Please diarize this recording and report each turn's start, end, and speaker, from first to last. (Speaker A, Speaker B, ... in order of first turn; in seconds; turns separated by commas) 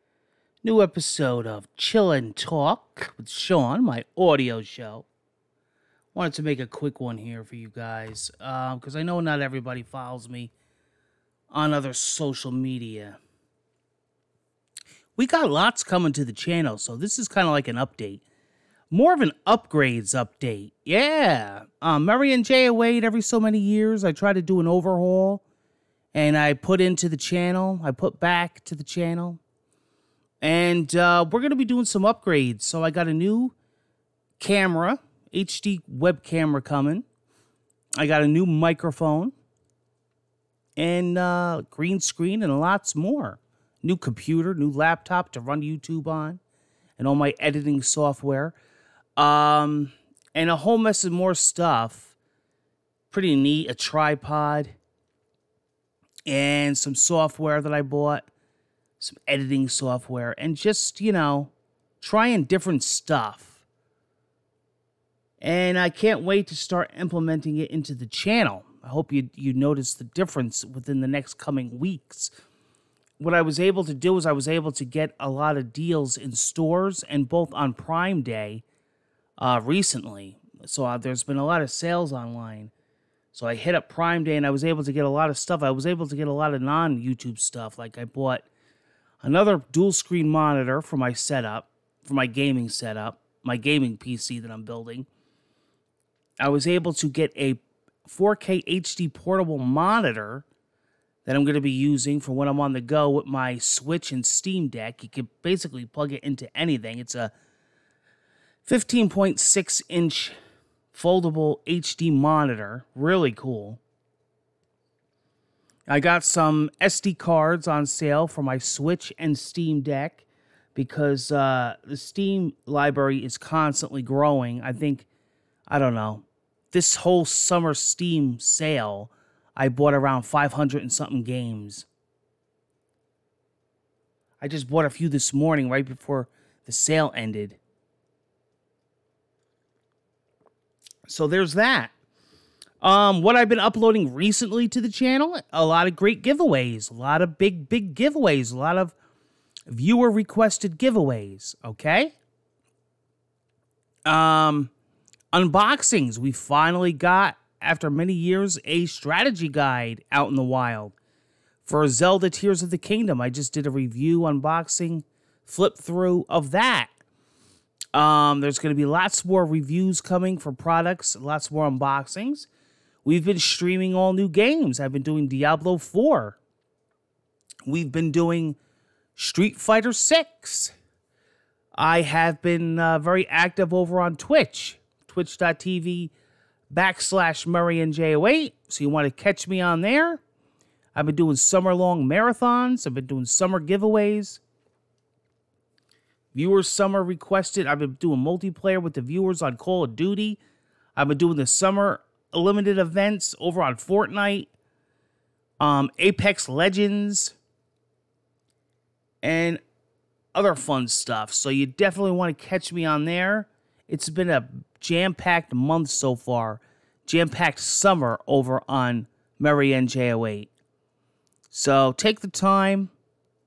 Speaker A: 0.6-5.1, Speaker A: 6.1-10.5, Speaker A: 11.5-13.2, Speaker A: 15.2-18.2, Speaker A: 18.9-25.4, Speaker A: 26.1-29.4, Speaker A: 30.4-33.5, Speaker A: 34.4-37.0, Speaker A: 38.0-39.3, Speaker A: 40.8-46.4, Speaker A: 47.0-48.6, Speaker A: 49.2-52.1, Speaker A: 53.1-54.8, Speaker A: 56.3-58.3, Speaker A: 59.0-63.5, Speaker A: 65.4-72.3, Speaker A: 73.2-78.6, Speaker A: 79.4-82.7, Speaker A: 83.3-88.5, Speaker A: 89.2-95.1, Speaker A: 96.4-100.5, Speaker A: 101.2-107.3, Speaker A: 108.7-110.3, Speaker A: 110.9-113.8, Speaker A: 115.9-125.1, Speaker A: 125.7-131.9, Speaker A: 134.4-137.6, Speaker A: 141.1-141.9, Speaker A: 142.8-148.9, Speaker A: 149.7-152.2, Speaker A: 154.1-154.7, Speaker A: 155.3-161.0, Speaker A: 161.6-166.9, Speaker A: 167.9-172.5, Speaker A: 173.0-176.4, Speaker A: 177.7-178.6, Speaker A: 179.2-180.7, Speaker A: 181.8-186.1, Speaker A: 186.7-190.2, Speaker A: 190.9-194.4, Speaker A: 196.3-200.4, Speaker A: 201.0-204.5, Speaker A: 205.6-207.3, Speaker A: 209.2-209.6, Speaker A: 210.3-220.5, Speaker A: 221.5-222.9